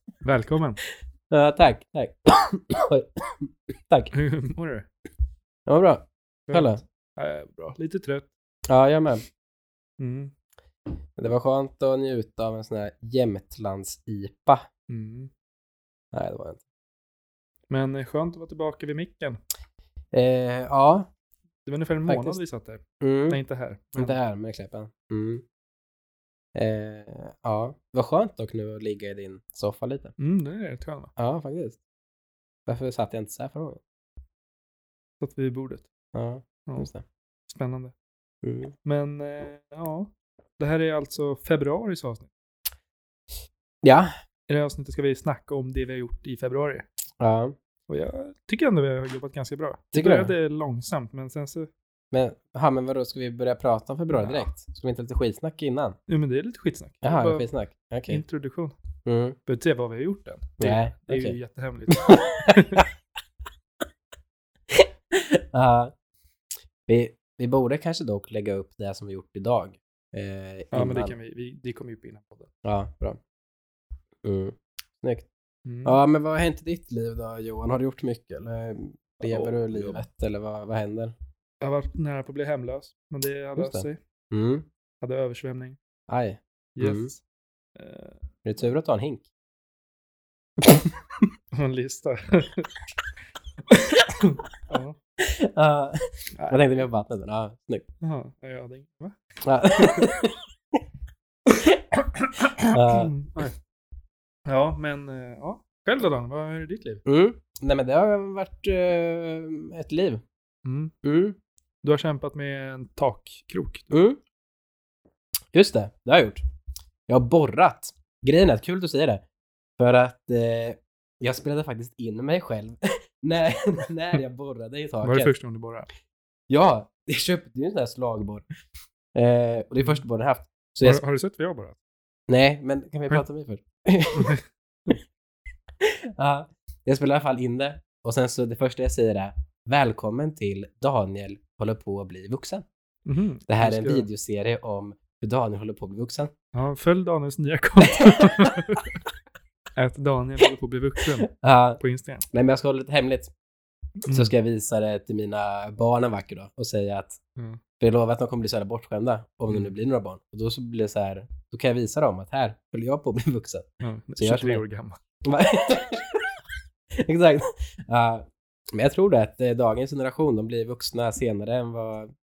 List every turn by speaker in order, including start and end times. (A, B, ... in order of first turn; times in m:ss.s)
0:00.2-0:00.8 A
0:01.3-0:04.1 B
0:04.1-0:04.9 A
0:05.7-0:06.8 B
0:06.5-0:08.3 A
0:08.7-0:09.2 B
0:10.0-0:10.3 A
0:11.2-0:14.7 B
0:14.9-0:15.3 A
0:16.1-0:16.6 B
0:17.7-0:19.4 A
0:20.1-0:21.1 B
0:21.6-0:24.2 A
0:22.0-0:22.4 B
0:23.0-0:23.4 B
0:24.0-0:25.4 B
0:26.5-0:30.1 B
0:30.2-0:31.1 A
0:31.2-0:31.8 B
0:32.7-0:33.8 B
0:35.2-0:35.9 A
0:36.1-0:37.0 B
0:37.5-0:37.9 A
0:38.4-0:38.7 B
0:38.8-0:42.3 A
0:43.8-0:44.1 B
0:44.5-0:46.9 A
0:47.2-0:47.6 B
0:47.9-0:51.7 A
0:49.9-0:50.3 B
0:52.1-0:56.0 B
0:54.1-0:54.5 A
0:56.1-0:57.5 A
0:57.0-0:58.2 B
0:58.1-0:58.8 A
0:59.0-0:59.4 B
0:59.5-1:02.8 A
1:00.6-1:01.4 B
1:02.0-1:02.9 B
1:04.7-1:05.9 B
1:06.9-1:11.1 B
1:10.7-1:12.5 A
1:12.6-1:13.2 B
1:14.2-1:15.3 B
1:15.7-1:16.0 A
1:15.8-1:21.1 B
1:19.2-1:20.0 A
1:21.6-1:24.0 A
1:23.6-1:24.7 B
1:25.0-1:25.8 A
1:26.1-1:27.1 B
1:26.8-1:27.2 A
1:27.8-1:28.2 A
1:28.4-1:29.3 B
1:30.6-1:31.2 B
1:31.5-1:32.7 A
1:34.1-1:35.0 A
1:35.2-1:37.8 B
1:36.3-1:36.7 A
1:38.0-1:39.2 A
1:39.4-1:40.4 B
1:41.9-1:43.6 A
1:42.7-1:43.1 B
1:44.4-1:47.0 A
1:47.0-1:50.2 B
1:50.6-1:50.9 A
1:51.0-1:51.4 B
1:51.8-1:53.9 A
1:53.9-1:54.2 B
1:55.5-1:56.4 B
1:57.1-1:59.2 B
1:59.8-2:05.3 B
2:05.0-2:05.9 A
2:06.5-2:08.4 B
2:09.1-2:11.0 B
2:10.8-2:11.8 A
2:12.3-2:14.4 B
2:14.1-2:15.0 A
2:15.8-2:22.7 B
2:23.1-2:24.1 A
2:23.5-2:26.3 B
2:26.5-2:29.0 A
2:29.8-2:32.2 A
2:31.3-2:33.3 B
2:34.0-2:34.3 A
2:34.1-2:37.2 B
2:37.8-2:44.6 B
2:43.8-2:45.0 A
2:45.2-2:46.2 B
2:46.9-2:52.1 B